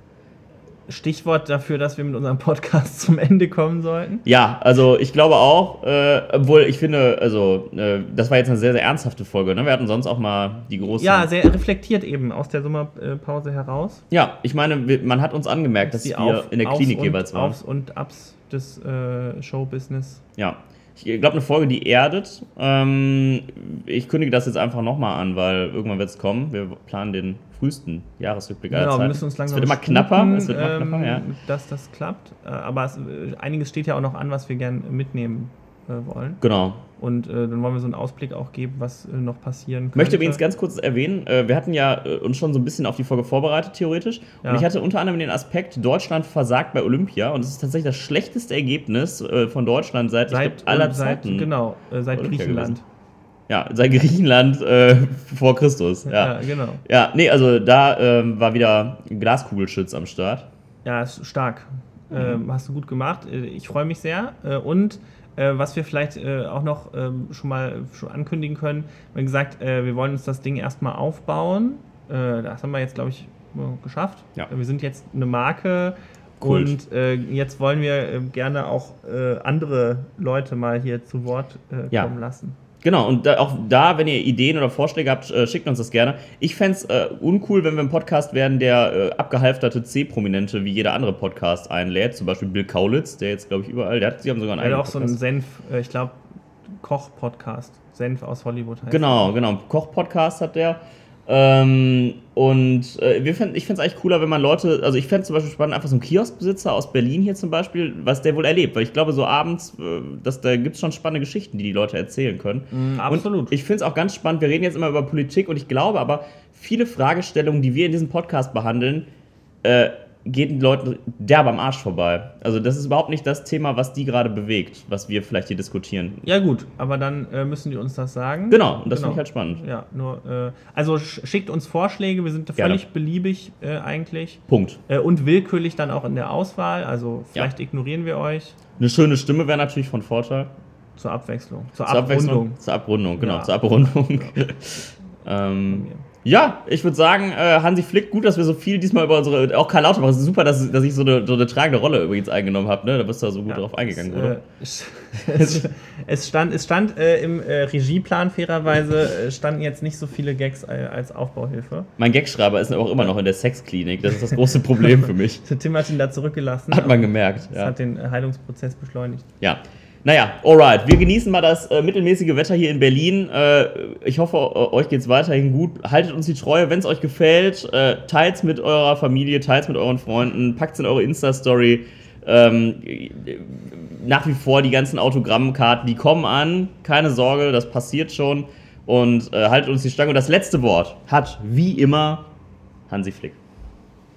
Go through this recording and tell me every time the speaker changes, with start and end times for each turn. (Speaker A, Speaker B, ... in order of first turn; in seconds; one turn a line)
Speaker A: 0.9-4.2
Speaker B: 4.2-11.3
Speaker A: 11.0-14.0
Speaker B: 14.1-17.6
Speaker A: 15.8-20.2
Speaker B: 20.4-31.2
Speaker A: 28.7-36.4
Speaker B: 36.4-36.8
Speaker A: 37.0-40.4
Speaker B: 39.9-51.5
Speaker A: 50.3-52.8
Speaker B: 52.1-52.8
Speaker B: 53.5-60.5
Speaker A: 56.0-56.8
Speaker A: 60.8-82.6
Speaker B: 62.1-62.4
Speaker B: 76.4-76.7
Speaker B: 82.8-95.2
Speaker A: 94.6-96.2
Speaker A: 96.8-99.3
Speaker B: 98.9-119.1
Speaker A: 112.7-113.5
Speaker B: 119.6-126.2
Speaker A: 126.2-138.6
Speaker B: 128.5-129.6
Speaker B: 132.6-132.8
Speaker B: 134.5-134.8
Speaker B: 138.8-140.5
Speaker A: 140.9-142.6
Speaker B: 141.8-154.4
Speaker A: 143.2-144.3
Speaker A: 145.7-146.0
Speaker A: 153.5-161.9
Speaker B: 155.3-155.6
Speaker B: 162.0-165.4
Speaker A: 164.9-169.2
Speaker B: 166.7-167.7
Speaker B: 169.4-192.3
Speaker B: 192.9-193.4